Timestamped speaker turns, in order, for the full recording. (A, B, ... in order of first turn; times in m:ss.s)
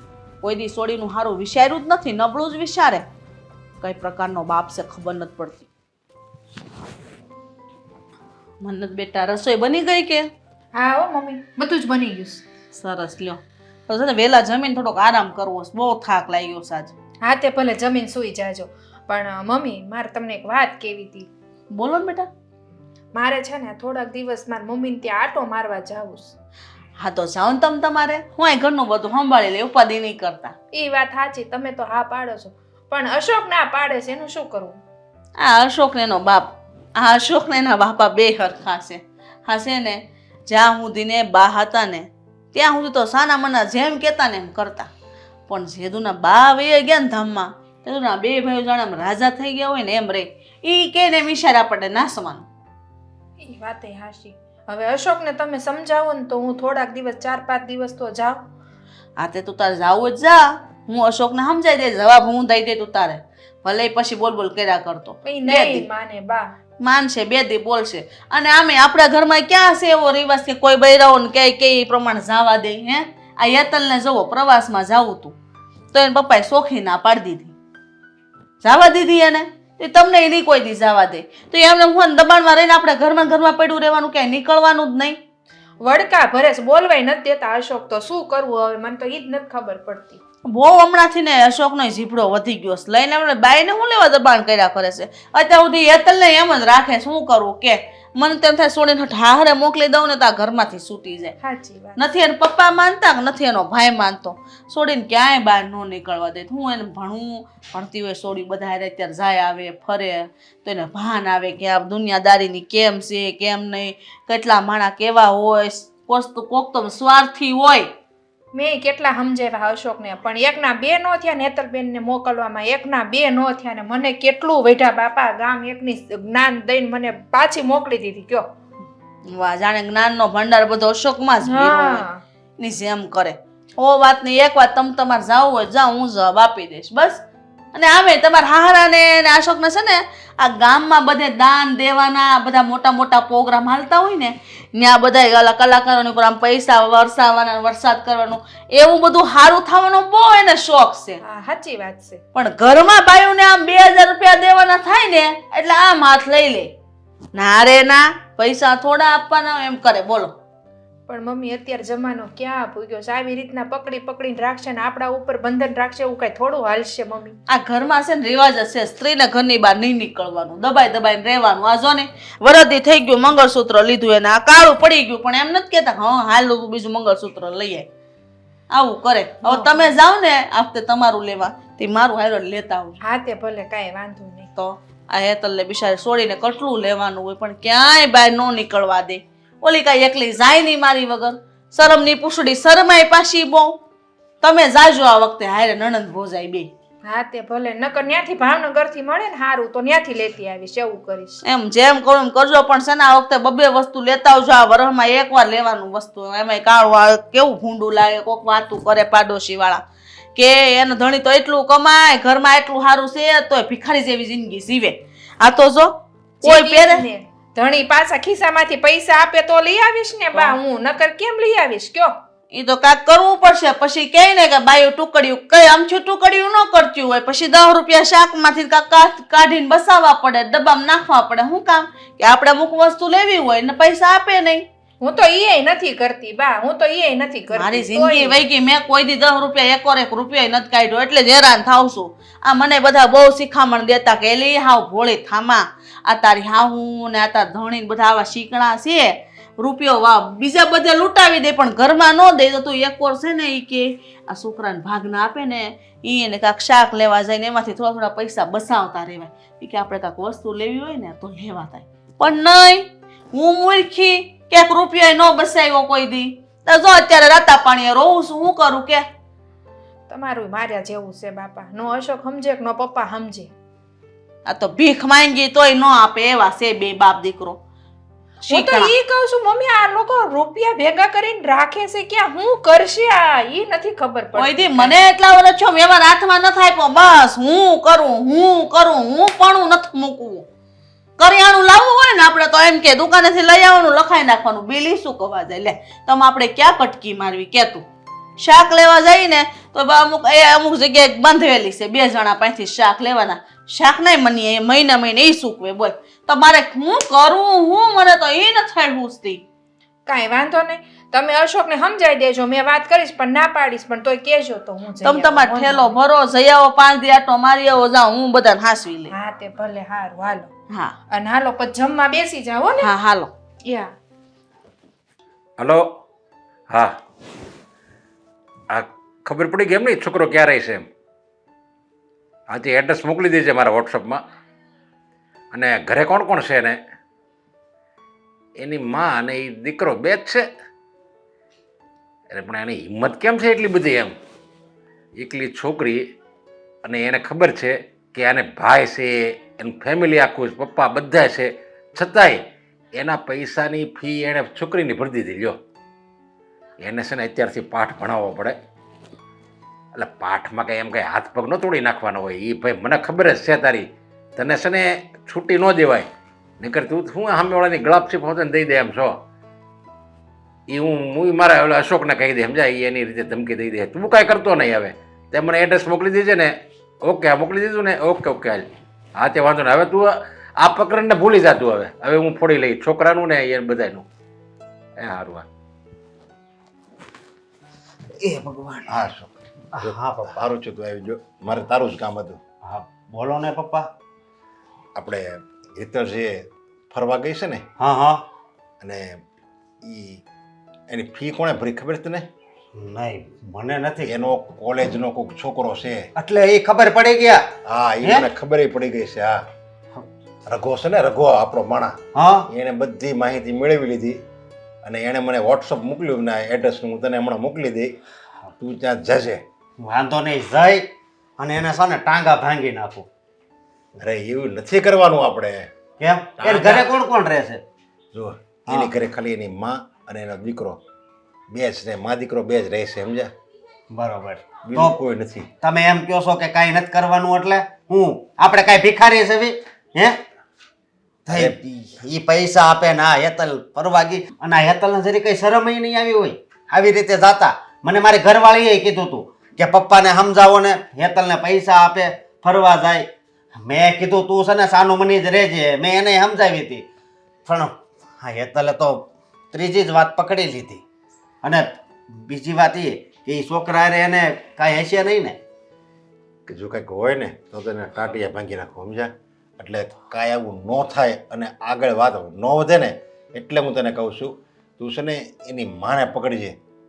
0:00.4-0:03.0 A
0:03.8-0:05.7 A
0:08.6-0:10.3 A
0:10.7-0:12.4 B
0:12.7-0:16.9 A
0:17.2-0:21.3 B
0:21.7-0:22.3 A
0:23.1-0:26.3 B
0:27.0-0:30.5 A
0:30.7-0:34.8 B
0:35.4-0:44.9 A
0:45.5-0:52.4 A
0:53.4-0:58.4 B
0:59.2-1:05.8 A
1:05.2-1:06.5 B
1:06.8-1:15.3 A
1:15.9-1:17.5 A
1:18.6-1:25.2 A
1:25.8-1:30.2 B
1:30.5-1:41.3 A
1:41.4-1:42.3 B
1:42.0-1:57.9 A
1:58.5-2:08.4 B
2:09.3-2:12.0 A
2:11.4-2:12.2 B
2:12.6-2:17.2 A
2:17.7-2:31.2 A
2:31.2-2:32.2 B
2:32.3-2:36.7 A
2:37.3-2:40.3 A
2:41.1-2:47.3 B
2:47.5-2:57.8 A
2:58.7-3:03.0 A
2:59.4-2:59.8 B
3:03.0-3:04.5 B
3:04.5-3:13.7 A
3:14.4-3:16.7 A
3:17.0-3:21.4 B
3:21.4-3:29.8 A
3:30.4-3:35.9 A
3:36.4-3:42.1 B
3:36.4-3:37.0 A
3:42.5-3:54.6 A
3:55.0-3:58.4 B
3:57.5-4:29.0 A
4:30.1-4:33.5 B
4:34.5-4:37.6 A
4:38.4-4:38.9 A
4:38.5-4:45.0 B
4:44.4-4:50.4 A
4:51.2-4:57.8 A
4:58.4-5:09.4 A
5:10.0-5:16.0 B
5:15.0-5:19.1 A
5:19.1-5:20.5 B
5:21.1-5:22.9 B
5:22.8-5:23.3 A
5:23.6-5:23.9 B
5:25.6-5:25.8 C
5:26.7-5:27.0 C
5:28.7-5:30.9 C
5:32.5-5:34.2 C
5:35.5-5:36.8 C
5:38.6-5:40.4 C
5:42.3-5:44.1 C
5:45.2-5:46.0 C
5:46.8-5:52.4 C
5:52.9-5:55.6 C
5:56.8-5:58.6 C
5:59.9-6:06.1 C
6:06.6-6:09.2 C
6:10.7-6:24.0 C
6:25.0-6:25.5 C
6:28.2-6:29.1 D
6:28.8-6:32.4 C
6:29.8-6:30.3 D
6:32.6-6:33.9 D
6:35.0-6:35.2 C
6:35.7-6:36.3 C
6:36.9-6:37.6 C
6:37.8-6:38.2 D
6:39.8-6:40.2 C
6:40.9-6:42.3 C
6:42.7-6:44.1 D
6:44.1-6:46.0 C
6:46.2-6:47.4 D
6:47.6-6:49.3 C
6:48.0-6:48.3 D
6:50.5-6:52.0 C
6:52.1-6:52.4 D
6:52.5-6:54.2 C
6:54.8-6:57.9 C
6:58.6-6:59.4 C
6:59.8-7:00.8 D
7:01.4-7:03.0 D
7:04.0-7:05.7 C
7:06.0-7:07.6 D
7:06.4-7:06.9 C
7:08.1-7:10.8 C
7:11.5-7:13.3 C
7:13.9-7:14.9 D
7:14.6-7:15.5 C
7:15.6-7:20.2 D
7:21.3-7:33.0 D
7:21.3-7:21.6 C
7:33.6-7:36.8 D
7:37.4-7:40.8 D
7:41.4-7:41.7 D
7:42.2-7:45.4 D
7:46.5-7:56.6 C